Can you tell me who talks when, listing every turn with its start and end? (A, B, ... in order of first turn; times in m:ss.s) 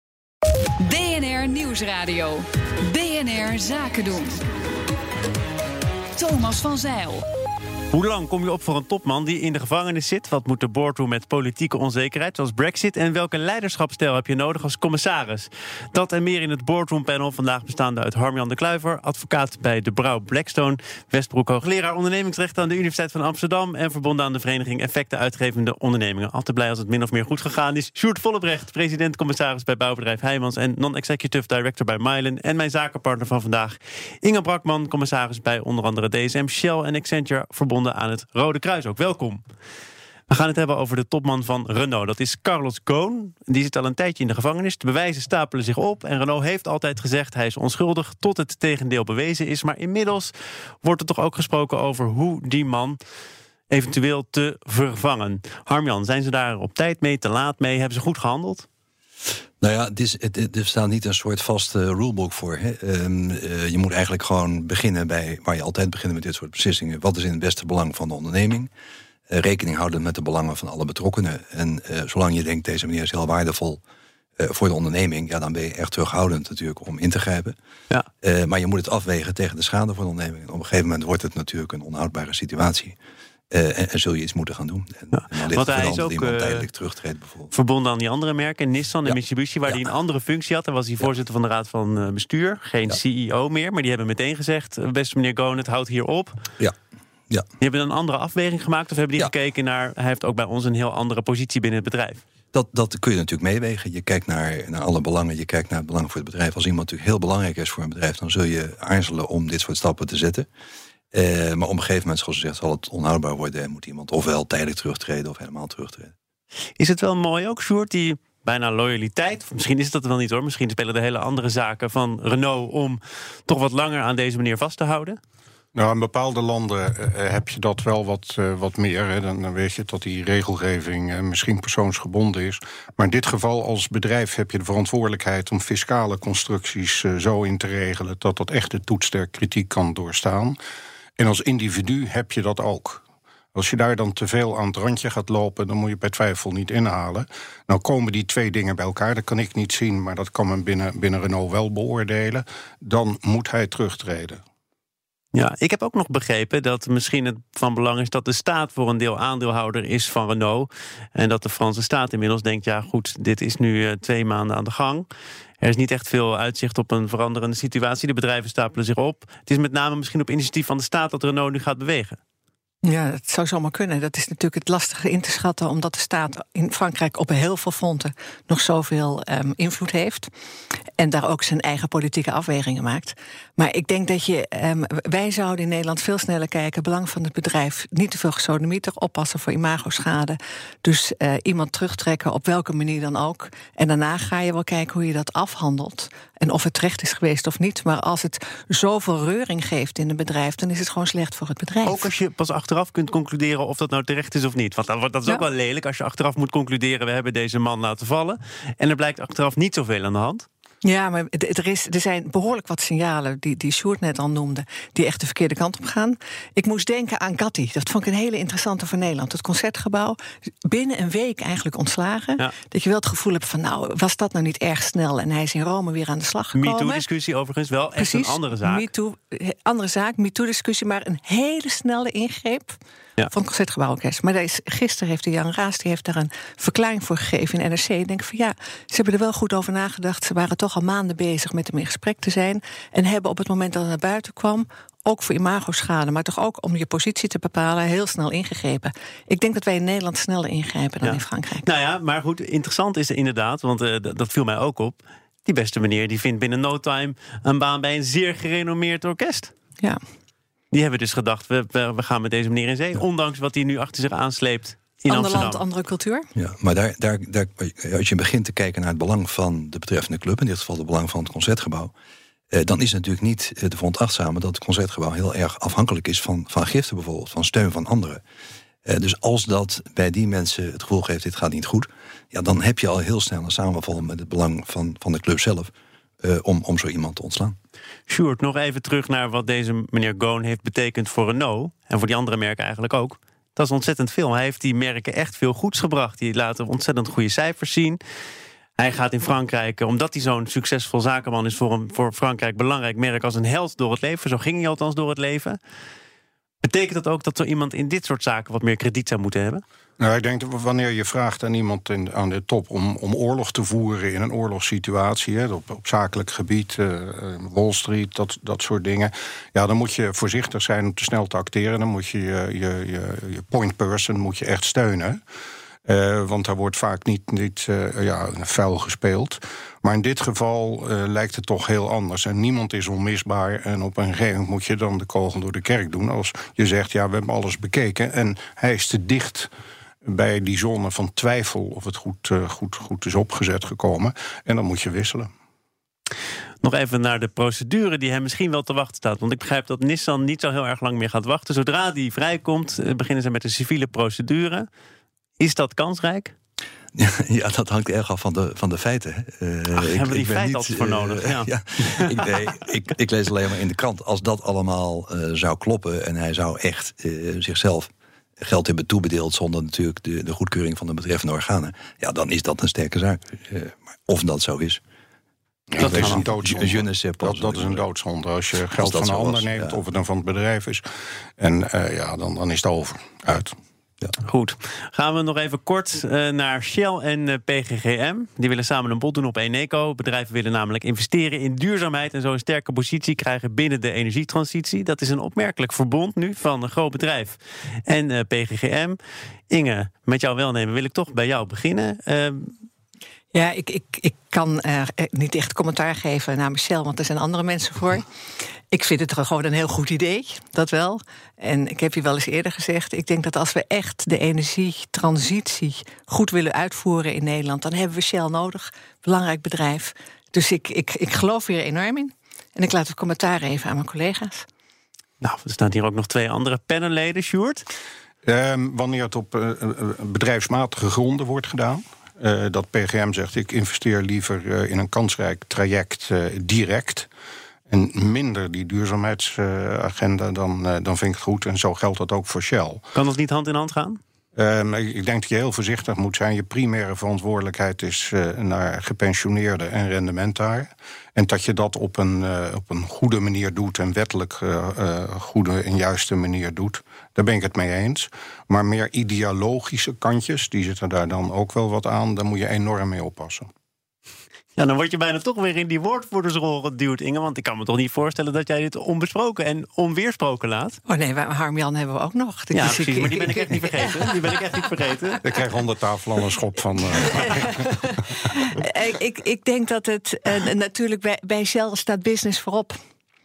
0:00.8-0:04.4 A
0:06.2-0:07.2 A
0:07.9-0:39.4 B
0:40.3-0:53.0 B
0:53.7-0:58.7 B
0:59.6-1:08.7 C
1:09.3-1:13.8 C
1:14.4-1:17.6 C
1:18.2-1:23.0 C
1:23.5-1:27.5 C
1:25.1-1:26.7 B
1:27.5-1:36.4 B
1:37.6-1:42.2 B
1:42.5-1:50.5 C
1:51.1-1:56.1 C
1:56.8-2:05.2 B
2:05.8-2:20.6 D
2:21.2-2:23.0 D
2:23.5-2:34.4 D
2:35.3-2:45.1 B
2:45.6-2:52.2 B
2:52.8-3:00.3 E
3:01.0-3:22.1 E
3:21.8-3:30.5 B
3:30.8-3:47.0 E
3:46.6-3:48.9 B
3:48.0-3:52.8 E
3:53.3-4:11.7 E
4:11.0-4:19.5 B
4:20.7-4:25.6 B
4:25.1-4:26.3 E
4:26.4-4:31.9 C
4:32.5-4:38.2 C
4:38.9-4:45.7 C
4:46.2-4:47.6 C
4:48.1-4:58.0 B
4:58.8-5:05.6 B
5:06.6-5:09.6 B
5:10.0-5:25.2 D
5:25.9-5:39.5 D
5:40.0-5:45.3 D
5:46.6-5:54.7 B
5:55.4-5:56.3 B
5:57.0-6:14.8 C
5:59.8-6:02.3 B
6:15.7-6:20.8 D
6:15.8-6:16.3 B
6:15.8-6:17.8 C
6:18.8-6:19.8 C
6:21.4-6:23.6 D
6:24.2-6:39.0 B
6:39.5-6:42.5 B
6:43.3-6:48.0 E
6:48.7-7:04.5 E
7:05.2-7:07.6 B
7:08.2-7:17.1 D
7:17.7-7:22.8 D
7:22.9-7:24.0 B
7:24.4-7:43.5 D
7:44.6-7:50.8 B
7:50.9-7:54.0 E
7:52.5-7:55.2 B
7:55.2-7:57.6 D
7:57.6-8:02.8 E